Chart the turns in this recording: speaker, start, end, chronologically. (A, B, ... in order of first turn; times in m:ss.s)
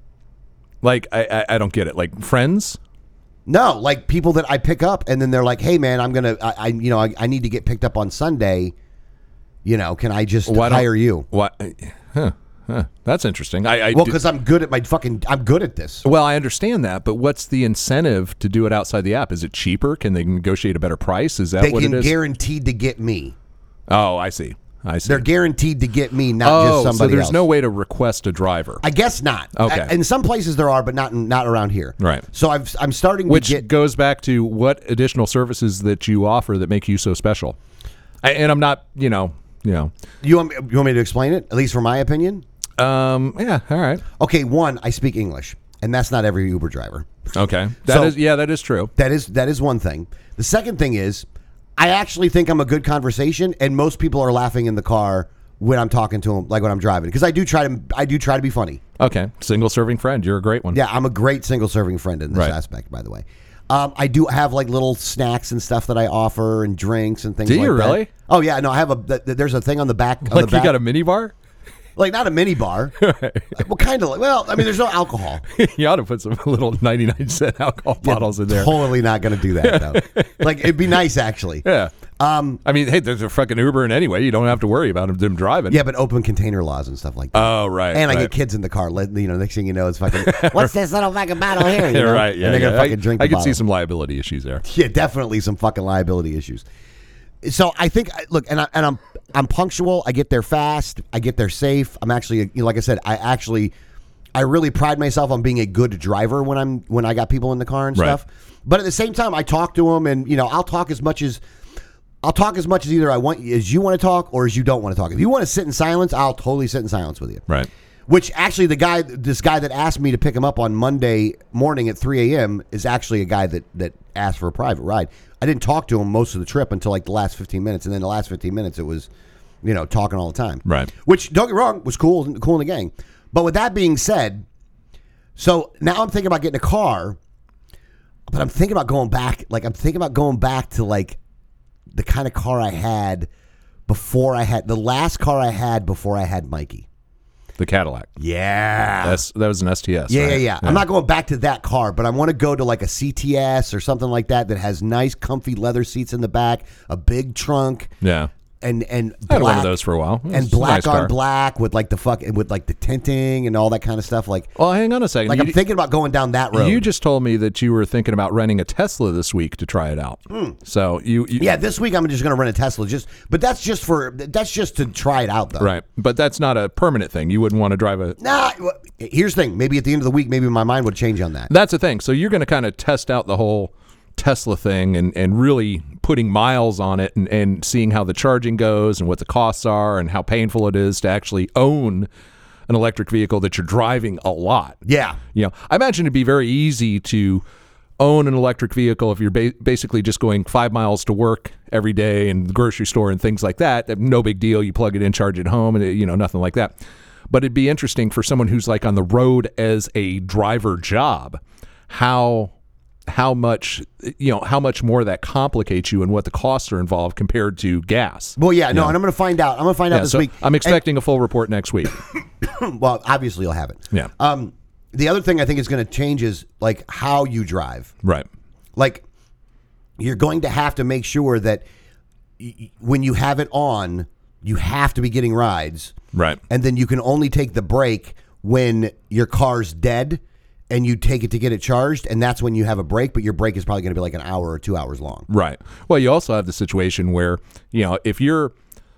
0:00.8-0:02.8 A
0:03.5-0:08.7 B
0:09.6-0:11.3 B
0:10.4-0:14.2 A
0:13.9-0:16.0 B
0:16.0-0:22.1 A
0:21.6-0:23.3 B
0:23.9-0:25.2 A
0:25.0-0:27.4 B
0:26.4-0:28.8 A
0:28.8-0:33.6 B
0:29.5-0:29.9 A
0:32.0-0:32.2 A
0:33.3-0:37.6 A
0:38.2-0:39.9 A
0:40.2-0:42.4 B
0:42.8-0:44.0 A
0:44.2-0:47.1 B
0:47.3-0:48.9 A
0:47.8-0:48.2 B
0:49.0-0:58.8 B
0:59.0-1:00.8 A
1:00.7-1:10.8 B
1:07.4-1:08.1 A
1:10.2-1:11.3 A
1:12.0-1:12.9 B
1:13.0-1:13.6 A
1:13.5-1:15.4 B
1:15.5-1:18.9 A
1:18.0-1:21.6 B
1:19.6-1:20.6 A
1:21.6-1:21.9 A
1:22.2-1:22.6 B
1:22.6-1:25.8 A
1:25.7-1:33.6 B
1:27.3-1:28.3 A
1:30.1-1:30.7 A
1:31.5-1:34.6 A
1:34.6-1:36.6 B
1:37.4-1:43.7 B
1:44.3-1:51.4 B
1:52.2-1:57.4 B
1:58.1-2:09.1 B
2:09.6-2:14.4 B
2:10.6-2:10.9 A
2:15.4-2:17.2 B
2:18.3-2:21.2 B
2:21.9-2:23.3 B
2:23.9-2:26.8 B
2:27.6-2:28.1 A
2:28.2-2:29.2 B
2:29.0-2:30.8 A
2:30.1-2:37.9 B
2:38.0-2:38.3 A
2:38.6-2:39.7 B
2:39.3-2:41.1 A
2:40.3-2:44.5 B
2:44.6-2:45.6 A
2:45.3-2:46.9 B
2:46.5-2:51.5 A
2:50.3-2:50.6 B
2:51.4-2:55.7 B
2:55.6-2:58.2 A
2:58.2-3:01.5 B
3:01.5-3:12.1 A
3:12.7-3:14.8 A
3:14.8-3:15.2 B
3:15.3-3:17.4 A
3:18.0-3:26.8 A
3:27.3-3:32.5 A
3:33.1-3:39.0 A
3:38.4-3:40.8 B
3:39.9-3:42.0 A
3:42.4-3:47.9 B
3:48.8-3:49.0 B
3:50.0-3:51.6 B
3:52.4-3:55.9 B
3:56.1-3:56.4 A
3:56.5-4:05.3 B
4:05.3-4:08.5 A